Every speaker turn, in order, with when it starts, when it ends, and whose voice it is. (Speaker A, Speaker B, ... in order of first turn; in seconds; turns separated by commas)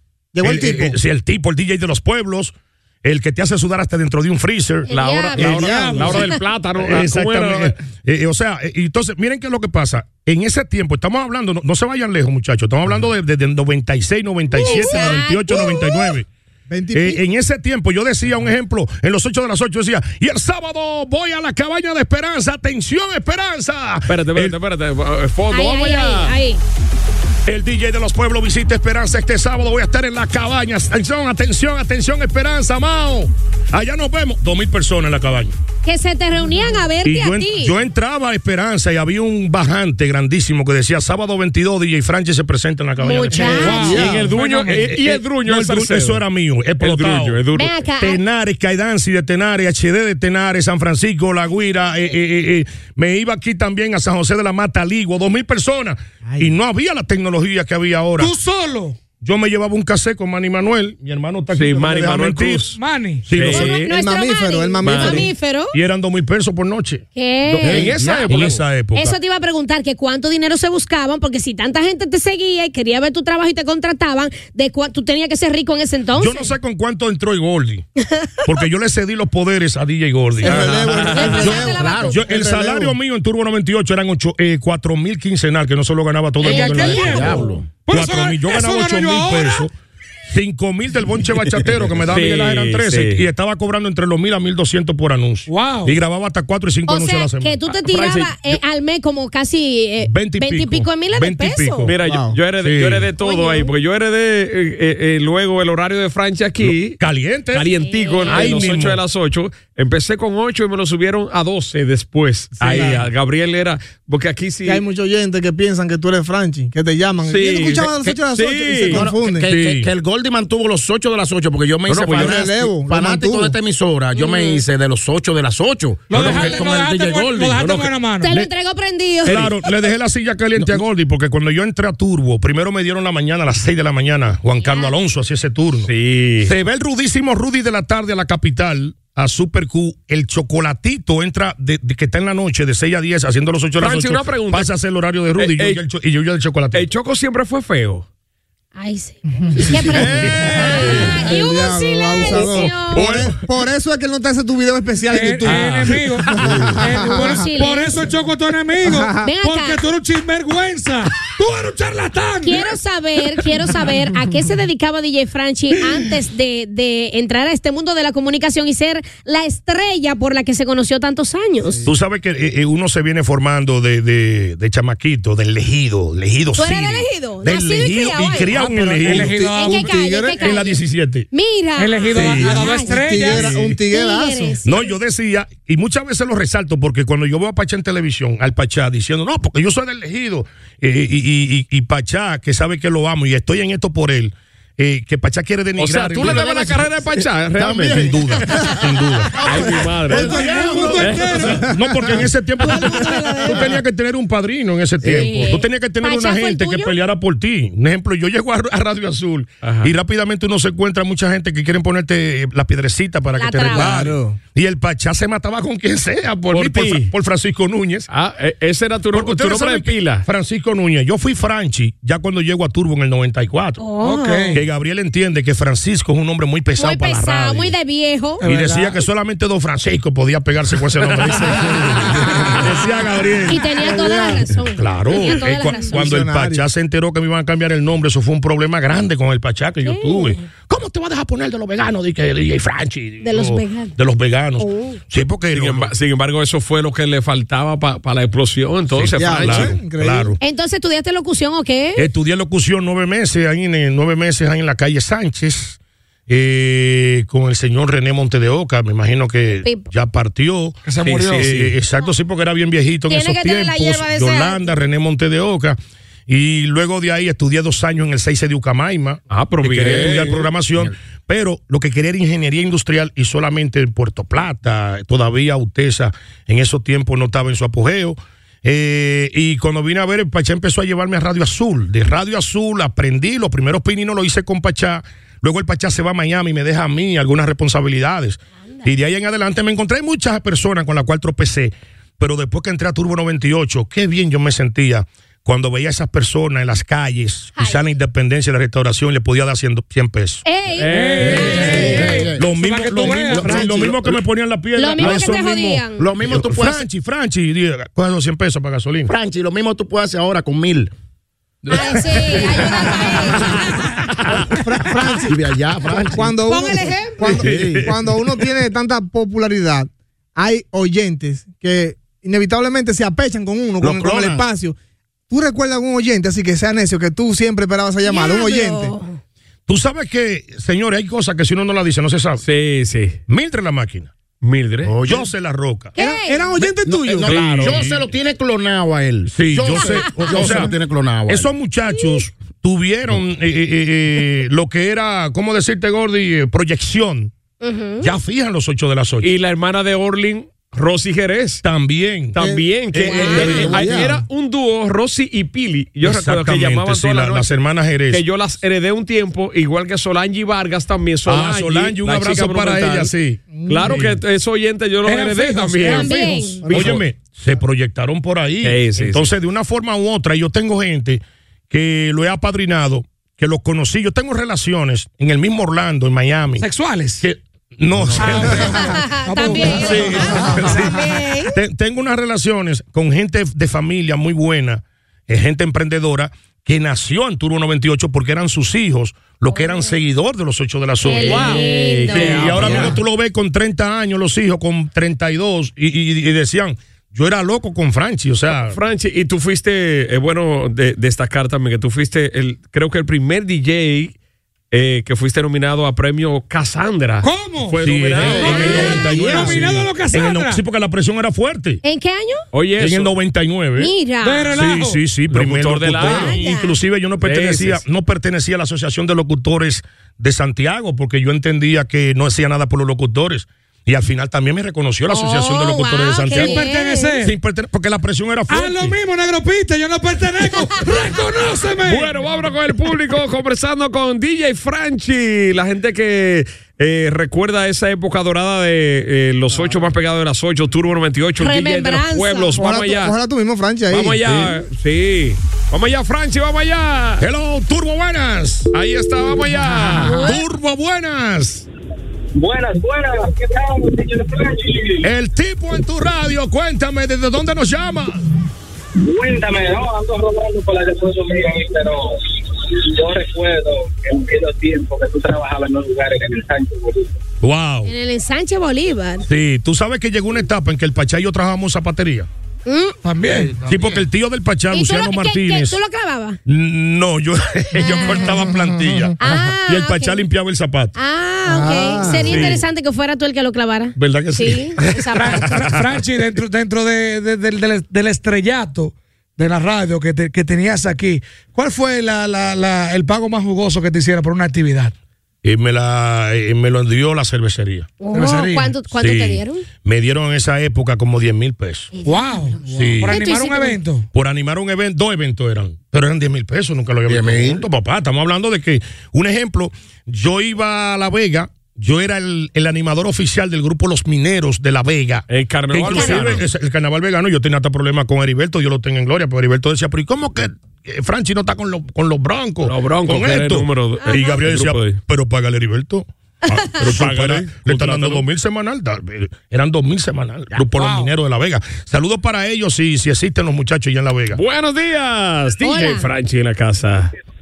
Speaker A: 0.3-1.0, Speaker B: 0.4-4.9, Speaker C: 4.9-5.8, Speaker D: 4.9-7.7, Speaker A: 5.4-6.2, Speaker B: 5.5-16.3, Speaker E: 5.7-6.2, Speaker C: 14.5-16.1, Speaker A: 16.7-17.2, Speaker B: 16.9-24.5, Speaker D: 24.1-26.4, Speaker C: 25.5-26.6, Speaker B: 27.4-35.6, Speaker C: 35.8-37.7, Speaker B: 37.0-43.8, Speaker C: 43.0-44.0, Speaker E: 43.4-45.0, Speaker A: 43.4-44.3, Speaker D: 43.8-46.2, Speaker B: 44.7-47.4, Speaker D: 46.8-47.7, Speaker C: 47.5-48.2, Speaker B: 48.0-58.3, Speaker A: 56.3-56.5, Speaker E: 58.2-59.0, Speaker B: 59.2-62.7, Speaker D: 61.5-62.8, Speaker E: 62.7-63.4, Speaker B: 63.2-63.7, Speaker D: 63.3-63.9, Speaker C: 63.5-65.8, Speaker A: 63.7-65.3, Speaker D: 64.8-65.3, Speaker B: 65.7-69.2, Speaker C: 67.1-68.3, Speaker D: 67.6-68.6, Speaker F: 67.6-68.5, Speaker C: 68.9-76.5, Speaker B: 76.2-77.9, Speaker C: 78.0-78.5, Speaker B: 78.4-89.7, Speaker C: 80.4-82.2, Speaker A: 80.4-83.0, Speaker D: 80.4-81.5, Speaker F: 81.5-82.2, Speaker E: 86.4-89.7, Speaker C: 86.4-87.3, Speaker F: 86.9-87.7, Speaker B: 90.3-98.6, Speaker D: 92.1-93.3, Speaker E: 95.5-96.0, Speaker C: 96.9-101.9, Speaker B: 100.0-101.9, Speaker D: 101.8-107.0, Speaker A: 102.0-102.3, Speaker B: 102.6-103.1, Speaker C: 103.2-103.7, Speaker B: 106.6-107.7, Speaker D: 107.5-114.8, Speaker C: 107.8-108.7, Speaker B: 108.3-109.0, Speaker A: 112.6-113.1, Speaker A: 114.6-119.5, Speaker D: 117.2-119.0, Speaker F: 118.9-127.9, Speaker B: 119.4-119.9, Speaker D: 121.9-122.4, Speaker A: 122.1-123.5, Speaker C: 124.1-124.6, Speaker E: 126.1-128.4, Speaker B: 126.1-126.6, Speaker C: 128.2-129.8, Speaker B: 129.2-135.9, Speaker C: 134.6-134.9, Speaker D: 135.8-136.5, Speaker B: 136.4-146.9, Speaker D: 143.8-144.7, Speaker D: 145.3-145.8, Speaker D: 146.7-148.1, Speaker C: 148.7-153.1, Speaker A: 149.3-157.4, Speaker D: 149.7-151.2, Speaker E: 150.2-151.2, Speaker D: 152.3-153.4, Speaker E: 155.1-162.8, Speaker D: 155.4-156.6, Speaker C: 157.2-158.1, Speaker A: 158.8-159.3, Speaker C: 159.2-159.8, Speaker C: 162.4-171.8, Speaker B: 171.8-179.5, Speaker C: 176.6-178.6, Speaker A: 178.5-180.6, Speaker E: 178.9-179.9, Speaker C: 179.5-180.8, Speaker B: 180.4-181.3, Speaker C: 181.3-183.3, Speaker E: 181.8-183.6, Speaker B: 182.1-182.7, Speaker A: 182.7-184.6, Speaker B: 183.3-183.8, Speaker C: 183.8-184.9, Speaker B: 184.6-196.9, Speaker D: 195.8-198.6, Speaker F: 197.6-198.2, Speaker B: 197.8-199.8, Speaker D: 199.4-201.6, Speaker A: 199.4-203.8, Speaker F: 200.1-201.2, Speaker E: 200.1-201.7, Speaker B: 201.6-218.1, Speaker C: 202.6-203.7, Speaker F: 205.0-205.3, Speaker C: 205.1-206.9, Speaker D: 209.6-209.9, Speaker C: 213.4-214.0, Speaker A: 213.7-214.4, Speaker D: 216.5-217.1, Speaker D: 218.1-220.2, Speaker B: 219.1-223.8, Speaker C: 223.8-224.6, Speaker E: 224.0-224.6, Speaker B: 224.5-227.7, Speaker C: 226.8-228.4, Speaker E: 228.4-229.0, Speaker B: 228.4-233.7, Speaker A: 231.4-232.8, Speaker C: 232.2-232.6, Speaker C: 233.5-236.0, Speaker A: 233.5-234.5, Speaker B: 234.7-245.9, Speaker A: 235.3-236.7, Speaker C: 239.8-240.4, Speaker C: 243.2-243.9, Speaker C: 244.6-245.0, Speaker D: 245.5-249.8, Speaker B: 248.9-250.4, Speaker A: 249.1-250.4, Speaker C: 250.4-252.1, Speaker B: 252.0-260.8, Speaker C: 259.6-259.9, Speaker E: 260.8-261.6, Speaker D: 261.0-261.7, Speaker B: 261.4-300.4, Speaker C: 263.1-264.7, Speaker D: 269.3-270.5, Speaker F: 269.9-270.2, Speaker C: 297.6-297.8, Speaker C: 300.4-302.2, Speaker D: 300.8-302.2, Speaker E: 300.8-303.8, Speaker B: 301.4-309.1, Speaker F: 301.4-302.5, Speaker F: 303.0-304.2, Speaker C: 304.7-306.1, Speaker F: 305.0-305.3, Speaker F: 306.0-306.9, Speaker F: 309.1-310.9, Speaker F: 311.7-312.8, Speaker B: 311.7-312.6, Speaker C: 311.7-314.0, Speaker A: 314.5-315.4, Speaker F: 315.2-316.4, Speaker A: 316.0-324.8, Speaker C: 316.4-317.4, Speaker D: 317.2-317.9, Speaker F: 317.3-317.9, Speaker F: 323.8-324.4, Speaker A: 325.3-328.9, Speaker C: 328.1-329.1, Speaker B: 329.7-332.4, Speaker D: 332.4-333.2, Speaker B: 333.3-334.1, Speaker D: 334.4-334.9, Speaker F: 334.8-335.3, Speaker B: 335.0-335.9, Speaker C: 335.9-336.5, Speaker A: 336.0-337.4, Speaker F: 336.6-341.5, Speaker D: 337.2-337.9, Speaker B: 337.3-338.0, Speaker B: 339.3-340.7, Speaker B: 341.3-347.3, Speaker C: 347.6-348.1, Speaker B: 348.0-349.3, Speaker D: 349.2-351.6, Speaker B: 351.6-352.4, Speaker D: 352.3-357.6, Speaker A: 352.4-354.2, Speaker B: 352.9-354.1, Speaker C: 353.0-353.8, Speaker B: 356.0-358.2, Speaker D: 358.1-363.1, Speaker B: 361.2-364.1, Speaker A: 363.5-364.1, Speaker D: 363.6-367.0, Speaker E: 365.0-366.7, Speaker C: 365.8-366.7, Speaker B: 366.7-376.7, Speaker A: 366.7-367.0, Speaker D: 368.6-369.3, Speaker E: 376.6-377.2, Speaker B: 377.2-378.9, Speaker E: 378.1-380.8, Speaker C: 378.6-381.6, Speaker B: 379.7-398.8, Speaker C: 391.0-392.9, Speaker D: 391.1-393.0, Speaker D: 398.5-404.1, Speaker D: 404.7-409.7, Speaker E: 407.2-410.6, Speaker B: 407.8-411.8, Speaker F: 408.2-408.7, Speaker C: 411.8-412.4, Speaker D: 412.5-413.1, Speaker B: 412.8-413.9, Speaker C: 413.8-414.6, Speaker E: 414.2-415.0, Speaker B: 414.5-426.6, Speaker D: 415.3-416.4, Speaker C: 415.9-416.7, Speaker D: 417.2-417.8, Speaker C: 425.1-427.2, Speaker E: 426.3-427.4, Speaker B: 427.2-428.9, Speaker E: 428.5-432.2, Speaker D: 431.8-443.1, Speaker C: 441.4-442.6, Speaker A: 442.6-444.4, Speaker D: 443.9-447.3, Speaker B: 447.2-448.7, Speaker D: 448.7-450.3, Speaker C: 450.0-450.4, Speaker B: 450.1-451.6, Speaker G: 452.3-455.1, Speaker B: 455.0-458.2, Speaker G: 459.0-467.2, Speaker B: 467.4-467.9, Speaker C: 467.9-469.2, Speaker B: 469.2-472.3, Speaker C: 472.6-473.0, Speaker E: 473.0-473.6, Speaker F: 473.6-474.0, Speaker B: 473.6-475.8, Speaker C: 474.7-476.4, Speaker B: 476.4-480.9, Speaker C: 477.7-478.3, Speaker A: 478.4-479.1, Speaker C: 479.2-480.2, Speaker C: 480.9-485.6, Speaker A: 481.4-482.5, Speaker B: 482.2-482.6, Speaker D: 482.2-482.6, Speaker B: 483.9-485.9, Speaker E: 485.1-494.9, Speaker B: 495.4-497.9, Speaker C: 498.0-499.6, Speaker E: 498.1-498.7, Speaker B: 498.9-501.9, Speaker C: 501.9-503.8, Speaker E: 502.0-504.1, Speaker B: 502.7-503.2, Speaker B: 504.1-534.4, Speaker F: 507.1-507.6, Speaker D: 515.3-516.4, Speaker C: 515.9-516.4, Speaker D: 522.6-525.0, Speaker C: 524.0-524.4, Speaker C: 526.5-526.8, Speaker D: 526.7-528.2, Speaker E: 530.7-531.1, Speaker D: 534.3-537.1, Speaker C: 535.6-536.1